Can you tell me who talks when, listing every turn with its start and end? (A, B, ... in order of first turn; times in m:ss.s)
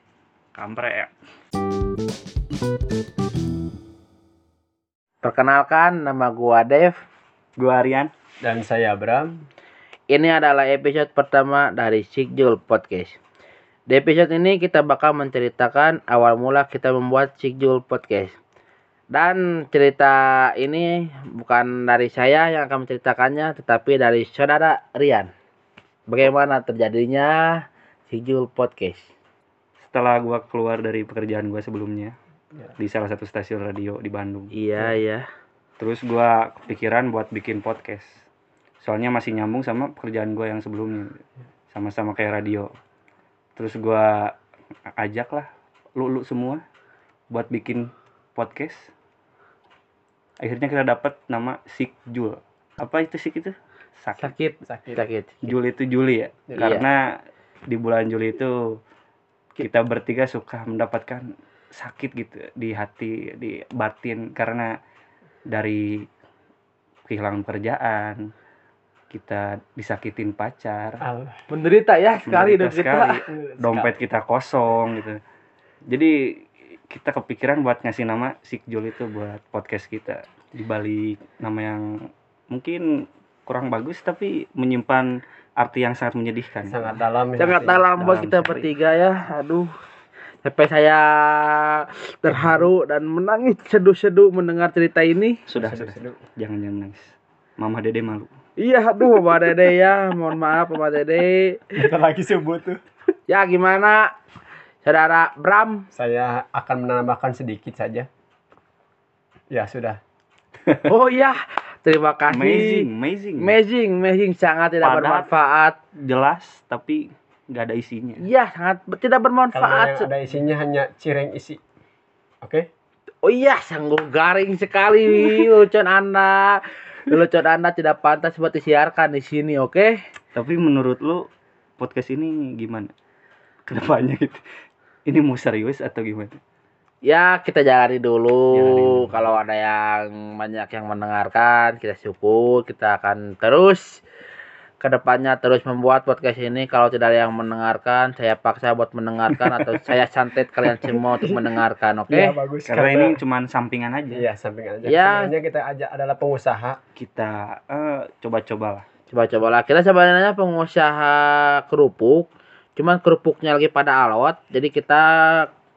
0:00.5-0:01.1 A
0:05.2-0:07.0 B
0:07.6-0:08.1 A
0:08.4-0:09.4 C
0:10.1-0:13.2 B
0:13.9-0:18.4 B
0:19.1-0:25.3 B
0:26.1-0:29.1 B
0:29.8-0:32.2 A
0:32.8-0:34.6 A
0:34.5-0:35.2 B
0:35.8-0:38.2 A
0:38.8-0:41.2 A
0:41.7-0:42.7 A
0:43.6-0:44.3 A
0:45.0-0:46.6 A
0:47.3-0:48.9 A
0:50.4-0:54.3 A
0:54.2-0:55.6 B
0:54.6-0:55.0 C
0:55.4-0:57.1 A
0:56.5-0:56.8 C
0:56.6-0:56.9 B
0:57.7-0:58.6 A
0:59.6-1:04.7 A
1:05.5-1:06.1 A
1:07.1-1:08.2 A
1:09.1-1:11.0 A
1:11.0-1:11.4 C
1:11.5-1:13.2 B
1:12.2-1:15.2 A
1:13.3-1:14.0 C
1:15.9-1:16.1 A
1:16.9-1:21.9 A
1:22.5-1:22.8 A
1:23.5-1:27.0 A
1:26.6-1:27.9 C
1:27.4-1:29.7 B
1:27.9-1:28.7 A
1:30.4-1:35.4 B
1:35.5-1:38.3 A
1:35.6-1:36.2 C
1:38.6-1:41.7 B
1:41.8-1:42.8 C
1:43.3-1:44.1 B
1:44.8-1:45.9 B
1:45.9-1:48.1 C
1:49.5-1:50.0 C
1:50.8-1:52.9 B
1:52.3-1:53.6 A
1:53.4-1:55.8 B
1:54.8-1:55.3 A
1:56.0-1:58.2 A
1:58.2-2:00.1 B
1:59.5-2:01.6 C
2:02.4-2:02.7 C
2:03.2-2:10.0 B
2:10.4-2:11.3 A
2:11.8-2:12.9 A
2:13.7-2:14.4 A
2:15.1-2:16.4 A
2:17.0-2:24.0 B
2:18.5-2:19.4 A
2:24.8-2:32.4 B
2:30.8-2:31.6 C
2:32.1-2:33.2 C
2:32.7-2:34.3 A
2:34.1-2:36.8 C
2:34.8-2:35.3 B
2:37.0-2:38.9 A
2:39.1-2:45.5 B